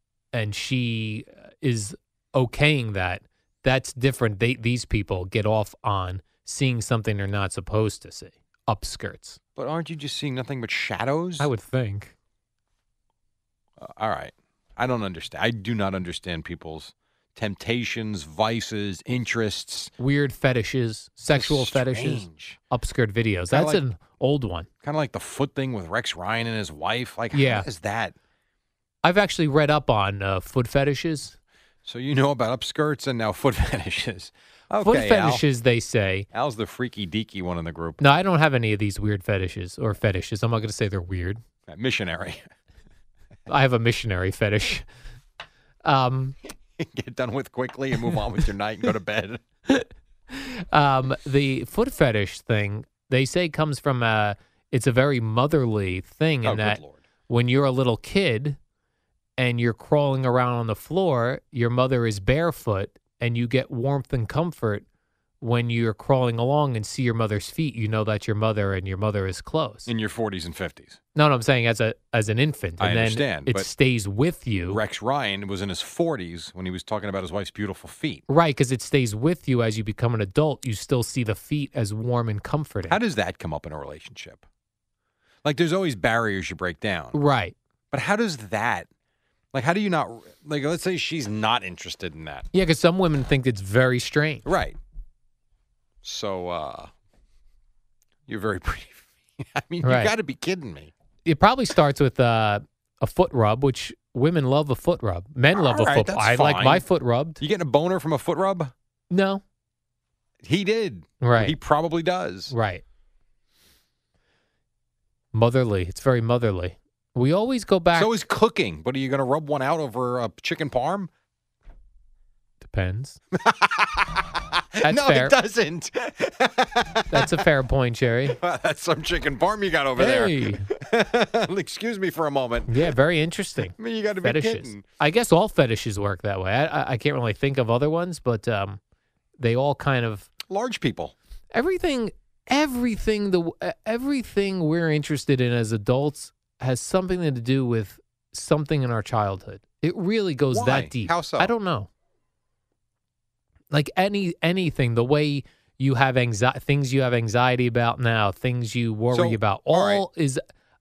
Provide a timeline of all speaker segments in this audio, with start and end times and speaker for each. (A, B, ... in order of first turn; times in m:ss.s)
0:00.3-0:09.4 A
0:09.6-0:11.5 B
0:11.4-0:12.1 A
0:13.8-0:19.9 B
0:20.0-0:24.7 A
0:21.3-0:22.6 B
0:23.5-0:23.8 B
0:24.8-0:28.2 B
0:27.3-0:27.7 A
0:29.0-0:31.4 A
0:31.8-0:35.4 B
0:34.8-0:36.3 A
0:36.3-0:38.0 B
0:38.0-0:41.4 A
0:41.7-0:42.4 B
0:43.5-0:44.8 A
0:45.8-0:46.4 A
0:46.8-0:49.4 B
0:49.7-0:58.6 A
0:56.4-0:57.0 B
0:59.4-1:04.8 A
1:05.4-1:09.9 A
1:09.9-1:11.0 B
1:11.2-1:14.8 A
1:12.8-1:13.7 B
1:14.7-1:18.2 B
1:18.3-1:23.0 A
1:22.9-1:24.4 B
1:25.4-1:27.2 B
1:27.1-1:27.6 A
1:27.9-1:28.9 B
1:29.5-1:32.5 B
1:32.5-1:34.5 A
1:34.4-1:34.8 B
1:36.0-1:36.9 B
1:38.3-1:40.9 B
1:39.8-1:40.1 A
1:41.2-1:47.4 A
1:45.5-1:46.8 B
1:47.4-1:48.7 B
1:49.1-1:49.4 A
1:50.4-1:52.5 B
1:51.2-1:51.6 A
1:52.5-1:52.8 A
1:55.3-1:58.1 A
1:58.0-2:01.1 B
2:02.6-2:03.2 A
2:03.3-2:04.2 B
2:04.8-2:07.4 B
2:04.8-2:05.4 A
2:07.1-2:08.4 A
2:08.3-2:12.9 B
2:10.0-2:10.7 A
2:12.7-2:18.8 A
2:13.7-2:14.8 B
2:19.4-2:20.3 A
2:20.5-2:21.1 B
2:21.5-2:31.9 A
2:30.5-2:31.5 B
2:33.7-2:40.4 A
2:39.1-2:40.0 B